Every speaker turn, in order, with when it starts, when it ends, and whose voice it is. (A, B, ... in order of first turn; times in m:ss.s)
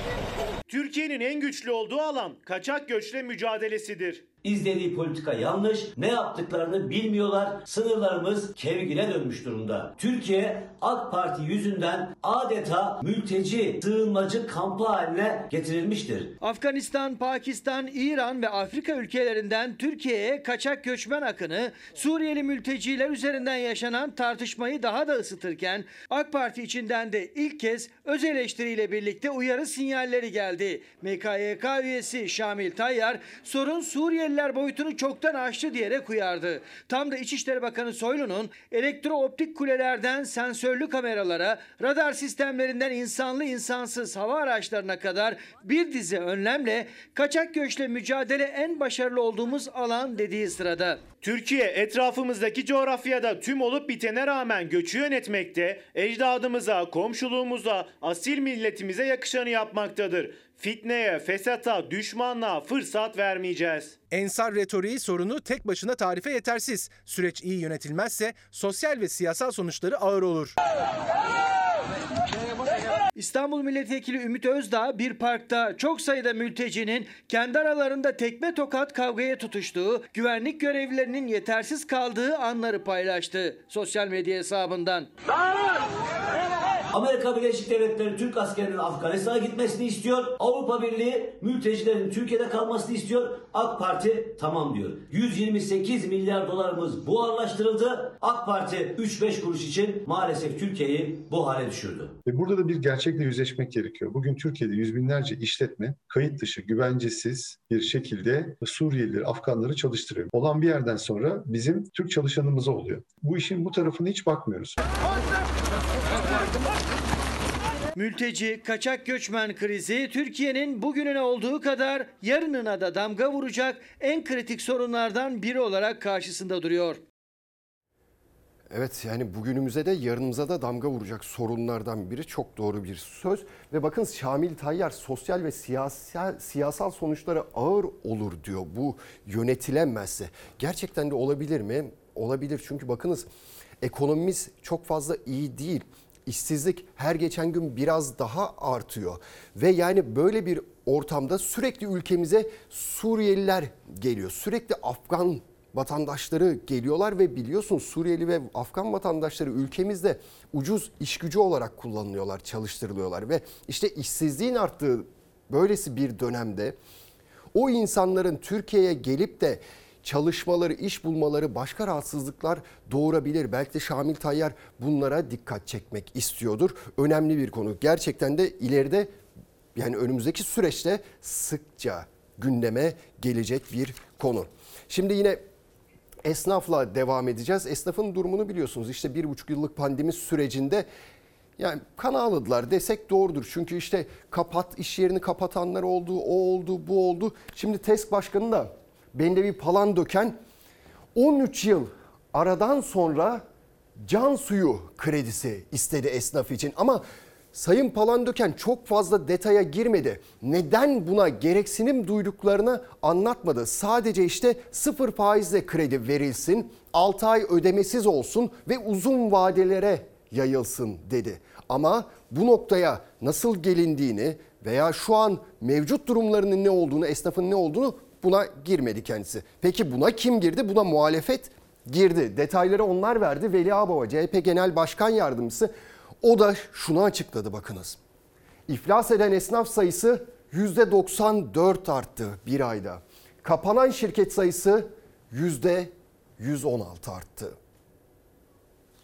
0:00.7-0:04.2 A
0:04.4-0:16.3 B
0:16.4-0:51.1 C
0:51.2-1:04.0 A
1:04.1-1:10.6 D
1:13.2-1:25.1 C
1:26.9-1:42.2 B
1:42.2-1:54.8 E
1:43.1-1:44.1 D
1:44.7-1:45.6 D
1:49.8-1:50.4 D
1:58.0-2:07.0 C
2:08.7-2:23.3 F
2:23.8-2:46.8 F
2:47.5-2:59.1 F
2:59.7-3:05.4 F
3:06.2-3:10.9 F
3:11.6-3:20.4 F
3:21.1-3:23.4 F
3:24.0-3:58.0 F
3:58.7-4:07.6 F